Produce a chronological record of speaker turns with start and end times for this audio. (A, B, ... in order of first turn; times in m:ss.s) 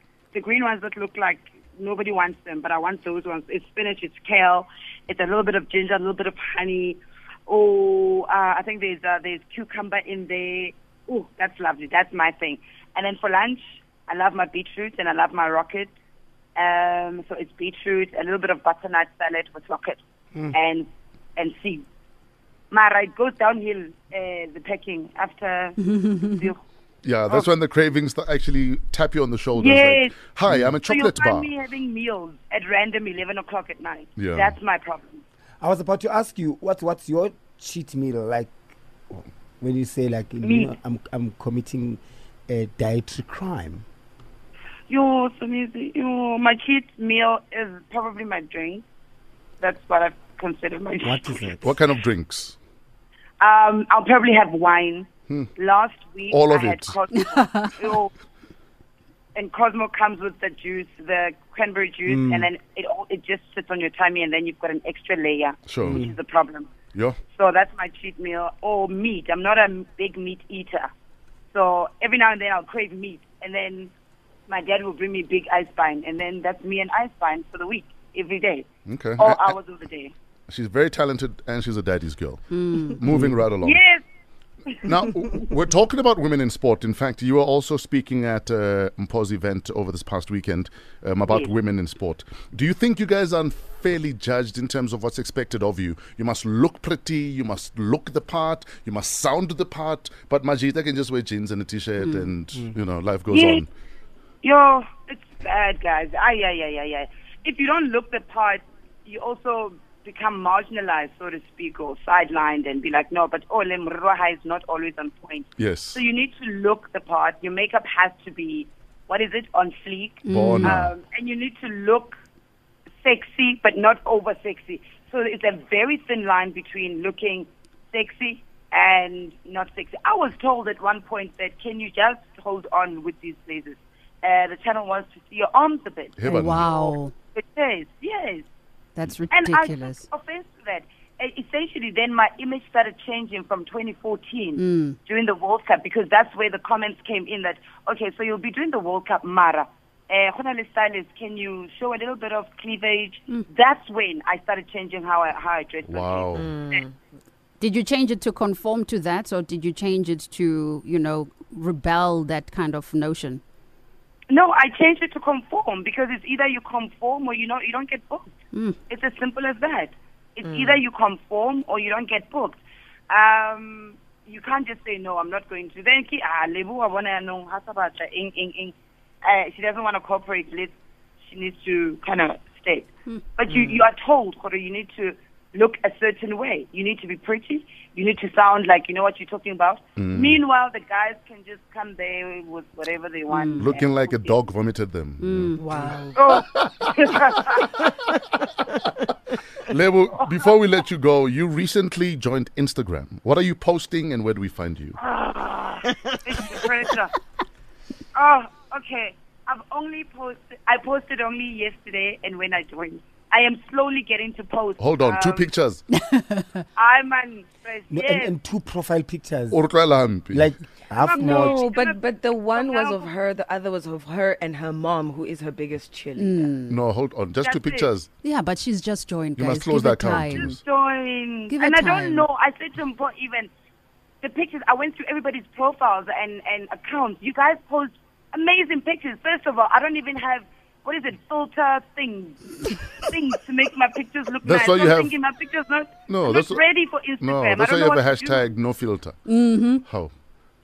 0:00.3-0:15.9 A
0:16.6-0:20.0 A
0:20.5-0:21.8 A
0:22.7-0:26.6 A
0:27.0-0:31.5 B
0:29.6-0:30.2 A
0:30.8-0:35.2 A
0:34.2-0:34.6 B
0:35.6-0:38.5 C
0:39.1-0:43.8 C
0:40.4-0:40.7 A
0:44.9-0:48.8 A
0:49.6-0:51.5 A
0:51.0-0:51.8 C
0:51.6-0:52.6 B
0:53.4-0:58.1 A
0:56.3-0:57.0 B
0:59.4-1:06.7 A
1:02.1-1:02.5 C
1:05.7-1:06.0 B
1:05.8-1:06.2 C
1:07.3-1:10.9 A
1:11.5-1:13.9 A
1:14.5-1:18.7 A
1:18.9-1:19.6 B
1:19.2-1:20.1 A
1:20.5-1:23.8 B
1:22.5-1:23.0 D
1:23.1-1:23.4 C
1:23.6-1:24.0 A
1:24.7-1:24.9 A
1:24.8-1:43.7 B
1:42.0-1:42.3 D
1:43.3-1:43.6 A
1:44.4-2:02.2 A
1:55.6-1:56.0 B
2:00.3-2:00.8 D
2:00.3-2:00.9 B
2:03.0-2:18.5 A
2:16.2-2:16.8 B
2:16.3-2:17.1 D
2:19.0-2:20.1 D
2:19.3-2:36.8 A
2:24.6-2:25.0 D
2:35.9-2:36.6 B
2:36.3-2:36.9 E
2:37.6-2:43.4 D
2:44.3-2:48.3 A
2:48.9-3:14.4 A
2:50.5-2:50.8 E
3:03.5-3:03.8 E
3:10.0-3:10.4 B
3:13.3-3:13.7 D
3:13.6-3:15.9 B
3:15.2-3:15.6 D
3:15.6-3:16.2 E
3:16.1-3:17.8 A
3:16.5-3:16.9 B
3:19.7-3:25.0 B
3:25.0-3:27.1 A
3:28.2-3:35.5 A
3:34.8-3:35.8 B
3:36.0-3:36.4 D
3:36.8-3:38.3 A
3:37.9-3:39.6 C
3:39.5-3:40.6 B
3:40.3-3:41.6 C
3:41.0-3:43.1 A
3:41.1-3:46.5 E
3:46.2-3:46.8 D
3:46.7-3:48.1 B
3:47.4-3:47.9 A
3:48.2-3:50.6 D
3:49.4-3:50.6 B
3:50.3-3:53.5 A
3:51.5-3:52.3 D
3:54.2-4:08.4 A
4:04.4-4:05.1 B
4:06.1-4:10.1 B
4:09.3-4:09.8 D